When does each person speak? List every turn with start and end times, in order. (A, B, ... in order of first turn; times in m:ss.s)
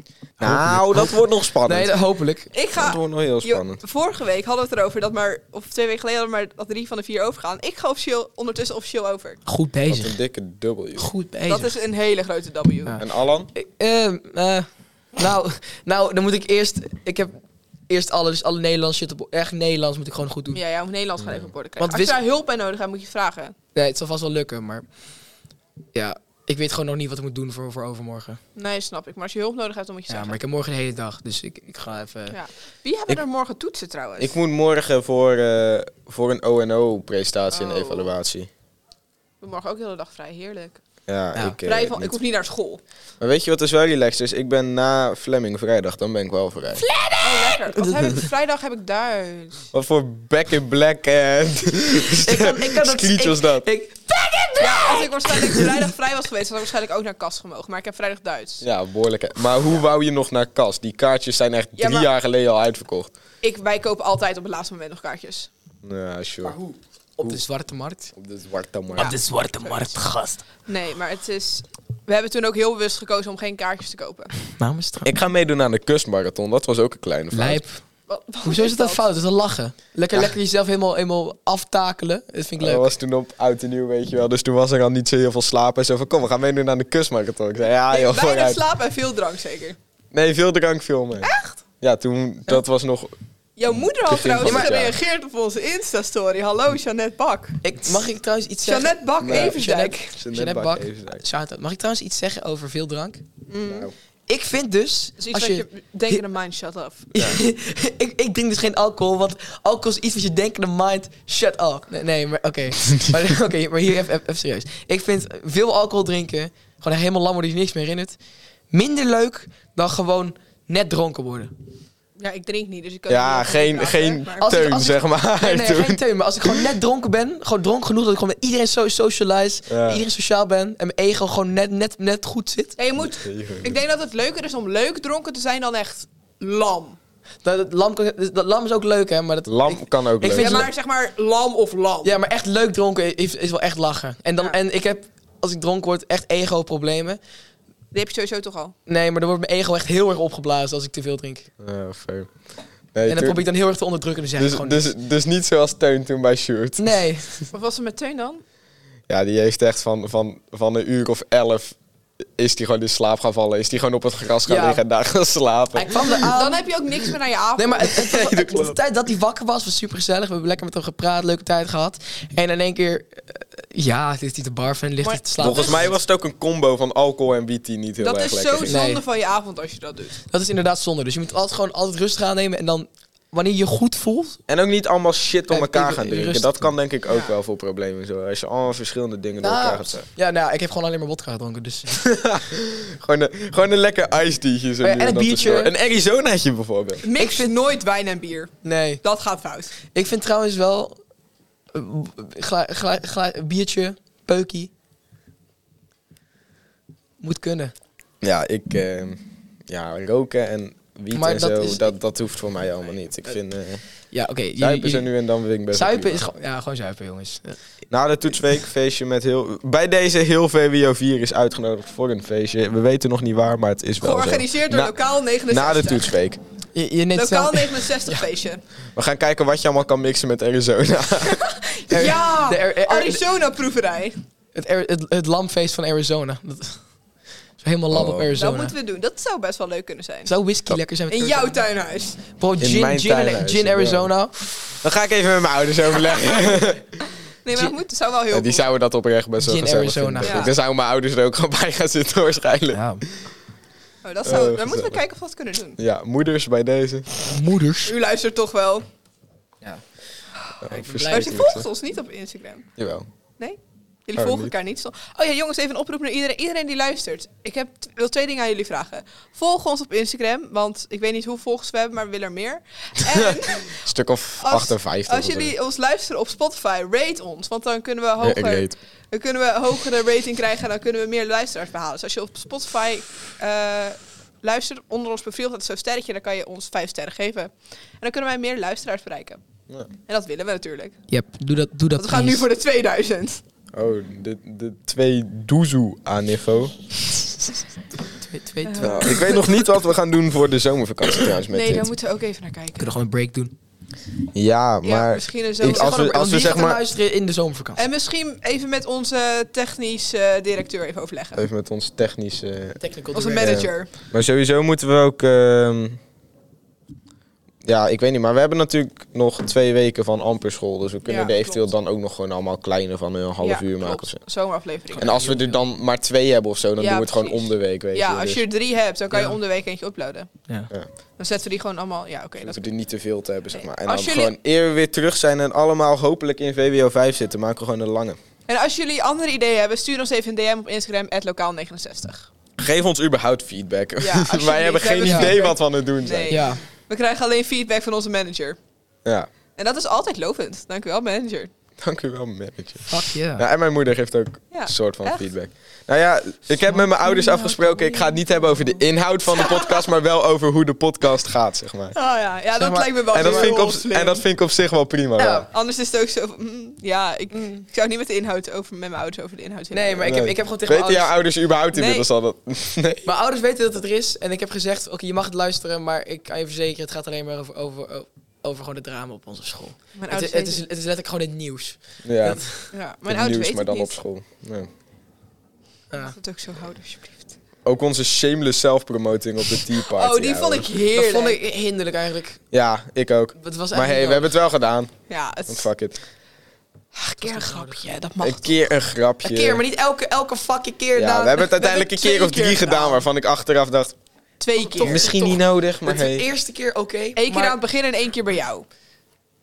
0:00.4-0:02.5 A
0:00.4-0:01.9 B
0:02.5-0:09.4 C
0:02.7-0:03.8 B
0:09.4-0:10.2 A
0:09.9-0:11.1 B
0:11.0-0:11.7 A
0:11.5-0:13.0 C
0:12.8-0:17.4 A
0:13.0-0:13.5 B
0:17.9-0:20.6 A
0:20.5-0:23.5 C
0:21.2-0:21.5 B
0:21.8-0:22.2 A
0:23.7-0:24.8 A
0:25.9-0:28.4 A
0:28.6-0:30.4 C
0:30.1-0:32.4 A
0:32.3-0:34.3 C
0:34.2-0:38.5 B
0:37.5-0:38.1 C
0:39.4-0:40.8 C
0:41.1-0:42.2 B
0:41.6-0:42.8 C
0:43.2-0:46.8 B
0:47.0-0:48.2 A
0:47.2-0:49.6 C
0:49.7-0:53.7 B
0:52.1-0:55.9 A
0:54.6-0:58.6 C
0:58.6-1:03.1 B
1:01.8-1:02.1 C
1:03.4-1:05.5 C
1:05.8-1:06.6 B
1:06.4-1:08.1 A
1:08.2-1:09.2 B
1:08.9-1:10.4 A
1:10.6-1:14.3 C
1:14.6-1:15.1 A
1:15.0-1:17.6 B
1:17.3-1:17.8 A
1:18.1-1:19.0 C
1:18.4-1:22.9 A
1:22.6-1:28.6 B
1:27.9-1:29.8 C
1:30.1-1:31.3 B
1:31.2-1:31.6 C
1:31.8-1:33.1 B
1:33.6-1:37.6 C
1:33.7-1:35.0 B
1:34.4-1:34.7 A
1:37.6-1:43.2 A
1:38.6-1:40.1 C
1:39.2-1:41.2 B
1:43.5-1:43.9 C
1:43.6-1:43.9 B
1:44.3-1:46.2 A
1:45.2-1:47.1 C
1:47.1-1:58.2 A
1:58.7-2:01.5 A
2:02.2-2:04.8 C
2:03.1-2:06.6 B
2:04.4-2:12.7 A
2:09.7-2:10.0 B
2:12.8-2:17.0 C
2:13.0-2:13.7 B
2:17.4-2:20.7 A
2:19.4-2:20.7 B
2:20.3-2:22.1 C
2:22.0-2:27.2 A
2:27.9-2:28.7 C
2:28.9-2:31.5 A
2:31.6-2:32.3 B
2:32.9-2:33.4 B
2:33.0-2:34.9 A
2:34.4-2:37.0 B
2:36.8-2:37.4 A
2:37.5-2:38.4 C
2:39.1-2:41.8 B
2:42.4-2:46.2 B
2:44.4-2:44.8 A
2:45.7-2:46.6 A
2:46.3-2:48.2 C
2:47.6-2:55.9 A
2:48.0-2:48.8 B
2:55.0-2:55.9 C
2:55.4-2:58.8 B
2:58.0-3:00.2 C
2:58.6-2:59.0 A
3:00.3-3:04.4 A
3:04.5-3:10.1 B
3:05.5-3:06.7 A
3:07.1-3:07.3 C
3:09.4-3:11.9 A
3:11.9-3:17.0 B
3:14.8-3:15.7 A
3:17.0-3:19.7 C
3:17.2-3:17.5 A
3:18.6-3:19.0 A
3:19.9-3:21.0 A
3:21.7-3:24.7 A
3:27.2-3:27.7 A
3:28.2-3:33.8 B
3:31.1-3:32.0 A
3:34.1-3:35.1 A
3:34.6-3:36.2 B
3:35.7-3:37.6 A
3:37.9-3:44.9 B
3:44.0-3:46.0 C
3:45.5-3:46.4 B
3:46.7-3:48.2 A
3:47.1-3:48.6 C
3:49.0-3:51.5 B
3:51.3-3:54.2 C
3:51.9-3:53.2 A
3:54.5-3:56.8 A
3:57.6-3:58.7 A
3:57.9-3:58.3 B
3:58.4-4:00.3 C
4:00.2-4:01.6 A
4:01.1-4:02.2 C
4:02.3-4:04.6 A
4:02.6-4:04.1 B
4:04.8-4:06.8 B
4:07.4-4:08.6 C
4:08.3-4:13.0 B
4:09.4-4:10.5 A
4:10.2-4:10.5 C
4:12.7-4:13.0 A
4:14.0-4:15.8 C
4:14.2-4:15.0 B
4:15.8-4:17.2 B
4:17.3-4:17.9 A
4:17.8-4:18.8 C
4:20.6-4:21.7 B
4:20.7-4:21.4 A
4:21.0-4:22.6 C
4:22.8-4:23.0 B
4:23.4-4:33.9 C
4:24.2-4:24.5 B
4:33.3-4:35.5 B
4:34.4-4:49.4 C
4:38.2-4:38.8 B
4:50.1-4:51.0 C
4:51.1-4:52.4 A
4:52.0-4:53.4 C
4:53.7-4:56.8 B
4:58.1-4:59.4 A
4:58.6-4:59.6 C
4:58.8-5:01.9 B
5:01.5-5:02.9 C
5:02.8-5:03.5 A
5:04.3-5:06.8 B
5:04.8-5:06.0 C
5:05.6-5:07.8 A
5:07.8-5:11.4 C
5:11.3-5:12.8 B
5:12.8-5:13.7 A
5:13.1-5:13.9 C
5:13.4-5:16.0 B
5:17.6-5:24.2 B
5:21.0-5:21.7 C
5:23.4-5:25.0 C
5:25.0-5:28.4 B
5:25.0-5:25.6 A
5:26.8-5:30.3 C
5:29.1-5:29.4 A
5:31.2-5:32.6 C
5:32.4-5:38.2 B
5:33.5-5:34.3 C
5:38.5-5:42.3 C
5:42.6-5:46.4 B
5:44.0-5:48.6 C
5:45.0-5:45.4 A
5:46.3-5:46.6 A
5:49.6-5:51.5 C
5:51.8-6:01.9 B
5:52.9-5:53.4 A
5:54.5-5:55.2 C
5:57.0-5:58.2 C
5:59.3-5:59.8 C
6:01.9-6:04.2 C
6:02.6-6:03.5 A
6:03.1-6:05.5 B
6:05.2-6:05.5 A
6:05.5-6:10.1 C
6:07.3-6:07.6 A
6:09.7-6:11.1 A
6:10.0-6:13.0 B
6:11.7-6:12.0 C
6:13.0-6:22.6 A
6:20.0-6:20.6 C
6:22.0-6:22.4 B
6:22.7-6:24.0 C
6:23.0-6:24.7 B
6:25.9-6:27.3 C
6:27.6-6:30.7 B
6:29.9-6:31.4 C
6:30.9-6:32.4 A
6:32.5-6:34.9 B
6:33.4-6:34.3 A
6:35.1-6:35.7 C
6:35.5-6:36.0 B
6:36.9-6:38.7 C
6:37.2-6:37.8 A
6:38.2-6:39.6 B
6:39.2-6:41.5 A
6:40.9-6:43.9 B
6:41.6-6:43.0 C
6:44.4-6:45.1 C
6:44.6-6:47.6 A
6:44.8-6:46.2 B
6:47.2-6:48.6 C